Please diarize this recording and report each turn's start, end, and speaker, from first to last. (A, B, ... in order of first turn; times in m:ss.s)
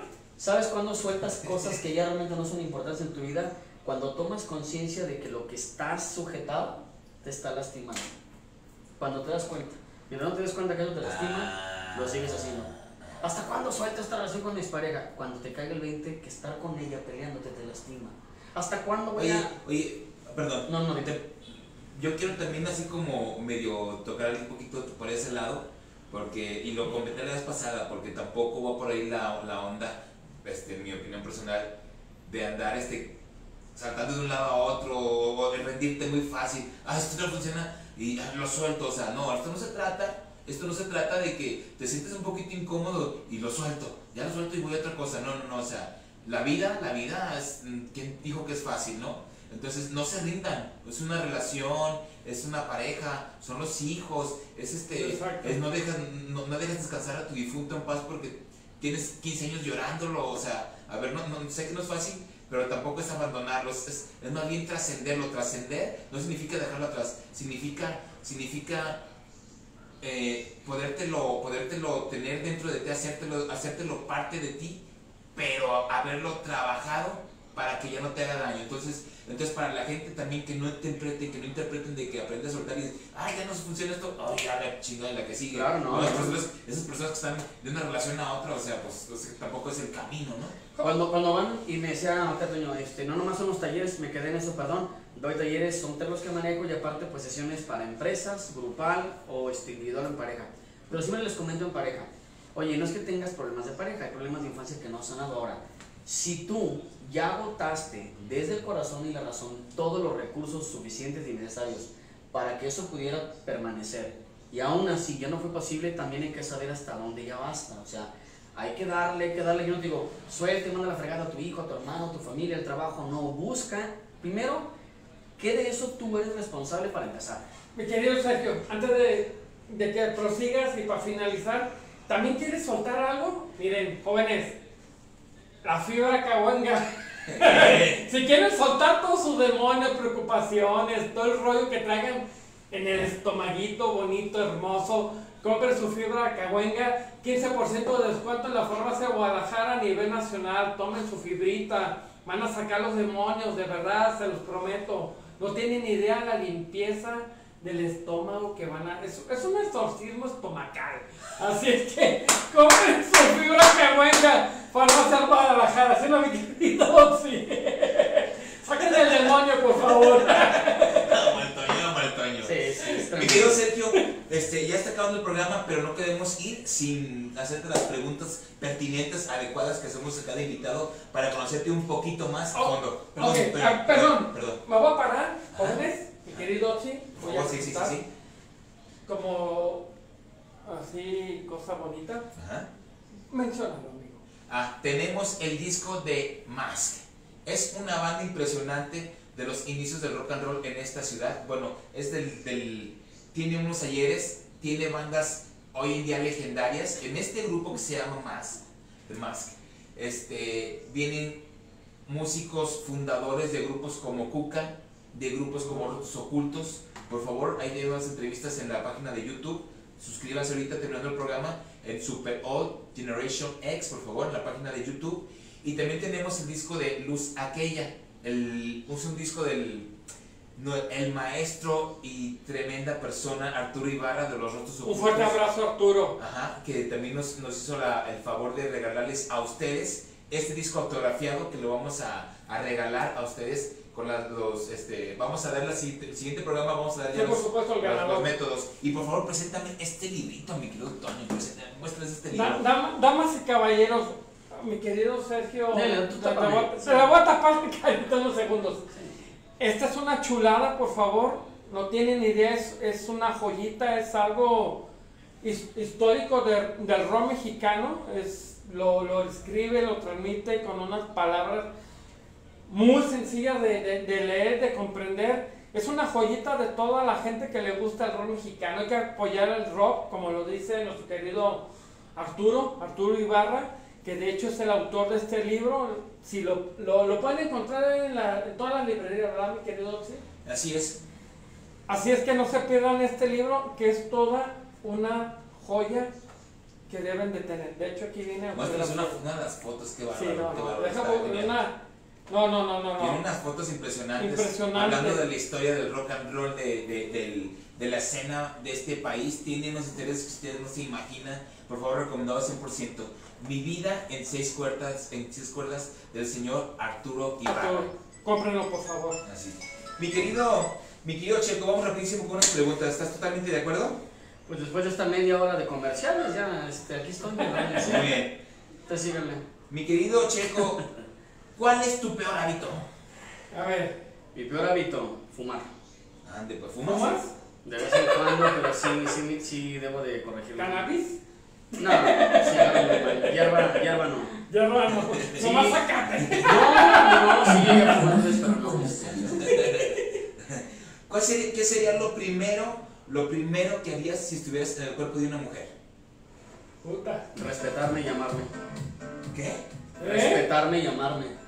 0:00.4-0:08.1 A
0:09.0-0:19.5 A
0:11.0-0:12.7 B
0:19.2-0:21.4 B
0:20.7-0:21.2 A
0:21.9-0:31.7 B
0:32.3-0:33.1 B
0:33.7-1:09.0 B
0:54.9-0:55.7 C
1:10.0-1:14.8 B
1:15.4-1:30.6 B
1:25.5-1:26.4 A
1:30.8-2:04.7 A
2:05.4-2:07.4 A
2:07.7-2:14.6 C
2:15.6-2:51.2 C
2:17.4-2:18.0 B
2:50.6-3:04.6 B
2:52.4-2:53.6 A
3:02.5-3:08.0 C
3:07.2-3:08.1 B
3:09.1-3:09.9 C
3:10.6-3:12.2 C
3:12.4-3:12.7 B
3:13.3-3:14.2 C
3:14.5-3:31.4 B
3:32.1-3:49.9 B
3:50.6-3:55.4 B
3:54.8-3:56.2 C
3:56.2-4:12.6 B
4:07.1-4:08.3 C
4:12.3-4:18.9 C
4:15.7-4:17.1 A
4:19.6-4:24.8 C
4:25.4-4:31.7 C
4:32.7-4:50.2 C
4:50.4-4:51.0 B
4:51.9-4:56.1 C
4:56.9-4:59.2 C
4:58.5-5:01.5 B
5:00.1-5:03.2 C
5:03.0-5:17.9 B
5:04.2-5:05.2 C
5:17.5-5:19.2 C
5:19.2-5:24.0 B
5:24.4-5:28.2 A
5:27.8-5:28.4 B
5:28.8-5:29.5 A
5:29.7-5:30.9 B
5:31.6-5:32.9 B
5:33.5-5:34.0 C
5:34.3-5:35.7 A
5:36.2-5:37.2 B
5:36.8-5:37.3 C
5:37.6-5:40.9 A
5:40.6-5:41.2 C
5:41.7-5:48.2 C
5:41.7-5:44.3 A
5:45.0-5:46.7 B
5:45.4-5:45.7 A
5:46.4-5:49.3 A
5:47.6-5:48.1 B
5:48.7-5:55.7 B
5:49.2-5:50.2 C
5:56.8-5:57.3 C
5:57.3-5:58.5 A
5:59.3-5:59.6 B
6:00.0-6:00.4 C
6:00.0-6:01.4 A